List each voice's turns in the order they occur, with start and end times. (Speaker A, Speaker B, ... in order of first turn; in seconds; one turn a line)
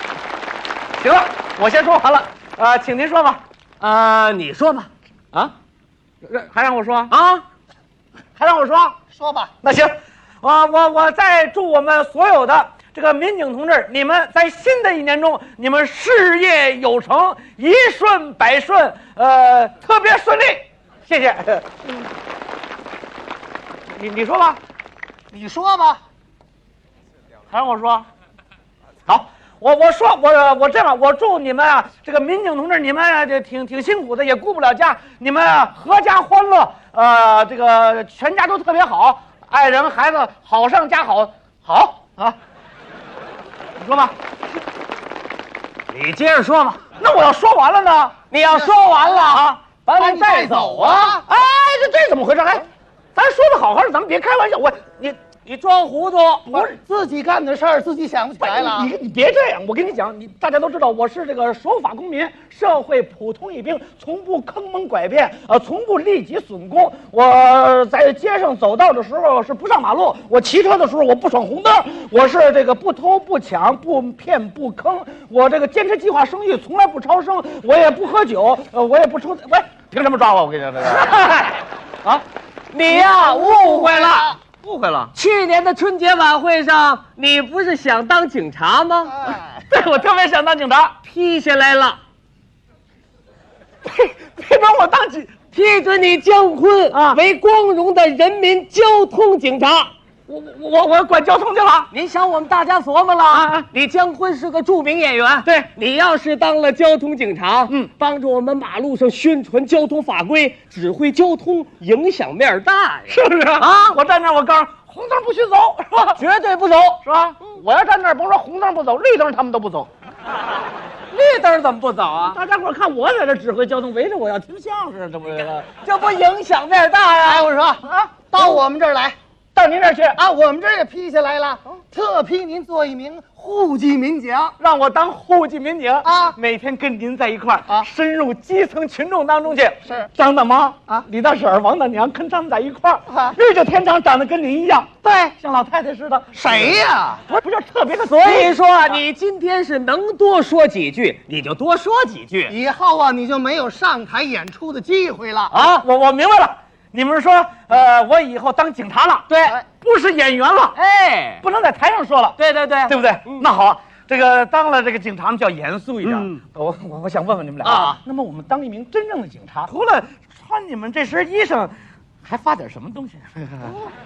Speaker A: 0.9-3.4
Speaker B: 3.8-4.9
Speaker A: 6.2-7.1
Speaker B: 7.1-7.4
Speaker A: 8.4-9.0
Speaker C: 9.2-9.5
Speaker A: 9.6-22.1
Speaker A: 23.9-24.6
Speaker C: 25.3-26.0
Speaker A: 27.5-28.1
Speaker A: 29.1-42.4
Speaker A: 43.8-44.1
Speaker B: 45.9-46.8
Speaker A: 46.9-48.2
Speaker B: 48.3-51.2
Speaker A: 49.3-49.6
Speaker C: 50.0-51.2
Speaker A: 51.0-55.2
Speaker B: 55.5-56.6
Speaker A: 56.5-56.8
Speaker C: 56.6-58.9
Speaker A: 58.4-82.2
Speaker B: 82.7-84.4
Speaker C: 82.9-84.4
Speaker A: 84.6-85.1
Speaker B: 85.2-89.2
Speaker A: 89.3-91.0
Speaker B: 91.0-92.0
Speaker A: 93.8-95.3
Speaker B: 95.4-99.9
Speaker A: 96.9-97.2
Speaker A: 100.3-101.9
Speaker B: 101.9-114.0
Speaker A: 103.3-103.7
Speaker A: 113.1-116.2
Speaker B: 116.2-117.0
Speaker A: 117.0-119.9
Speaker B: 121.1-122.4
Speaker A: 122.2-125.7
Speaker B: 125.8-127.5
Speaker C: 127.2-129.2
Speaker A: 127.8-128.3
Speaker A: 129.5-130.2
Speaker C: 130.2-134.5
Speaker A: 134.6-148.6
Speaker C: 136.1-136.3
Speaker C: 145.1-145.3
Speaker C: 146.3-147.2
Speaker B: 148.0-152.6
Speaker C: 152.5-155.5
Speaker B: 155.5-155.8
Speaker A: 155.8-160.8
Speaker B: 159.3-159.6
Speaker B: 160.8-161.4
Speaker A: 161.4-173.8
Speaker B: 162.4-163.4
Speaker B: 166.0-166.4
Speaker B: 167.6-168.0